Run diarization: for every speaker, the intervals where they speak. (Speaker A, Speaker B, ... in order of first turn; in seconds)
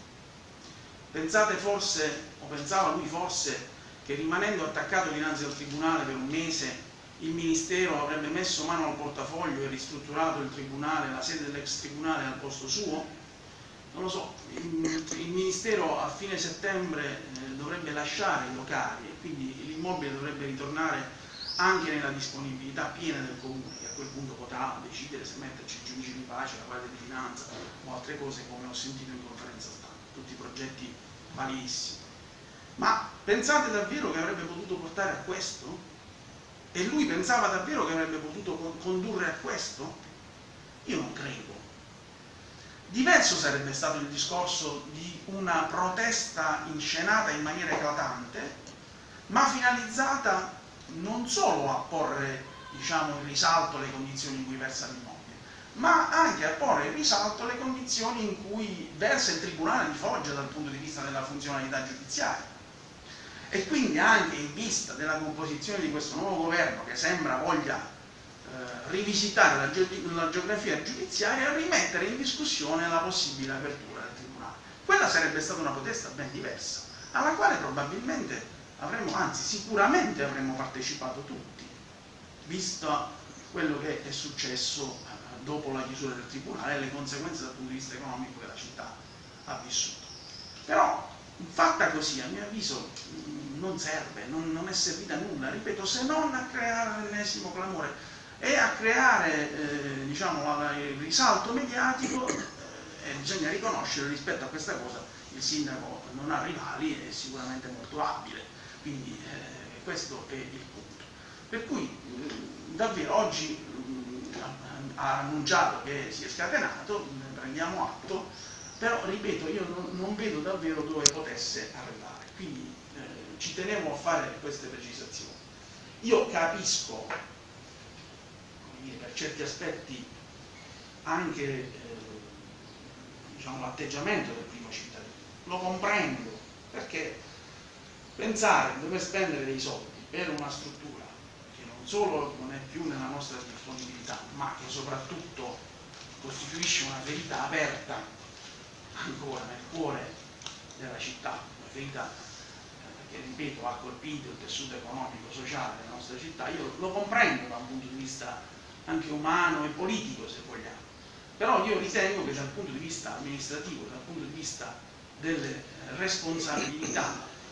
Speaker A: 1.1-13.1, 13.9-32.0, 32.8-35.8, 36.7-40.0, 40.9-41.7, 42.9-48.6, 49.3-62.5, 63.5-67.9, 68.5-81.7, 82.5-90.1, 90.7-125.4, 126.0-127.2, 128.6-130.1, 131.1-132.5, 133.3-137.2, 138.2-145.6, 146.2-148.1, 148.9-150.1, 150.8-152.1, 152.9-160.8, 161.4-167.2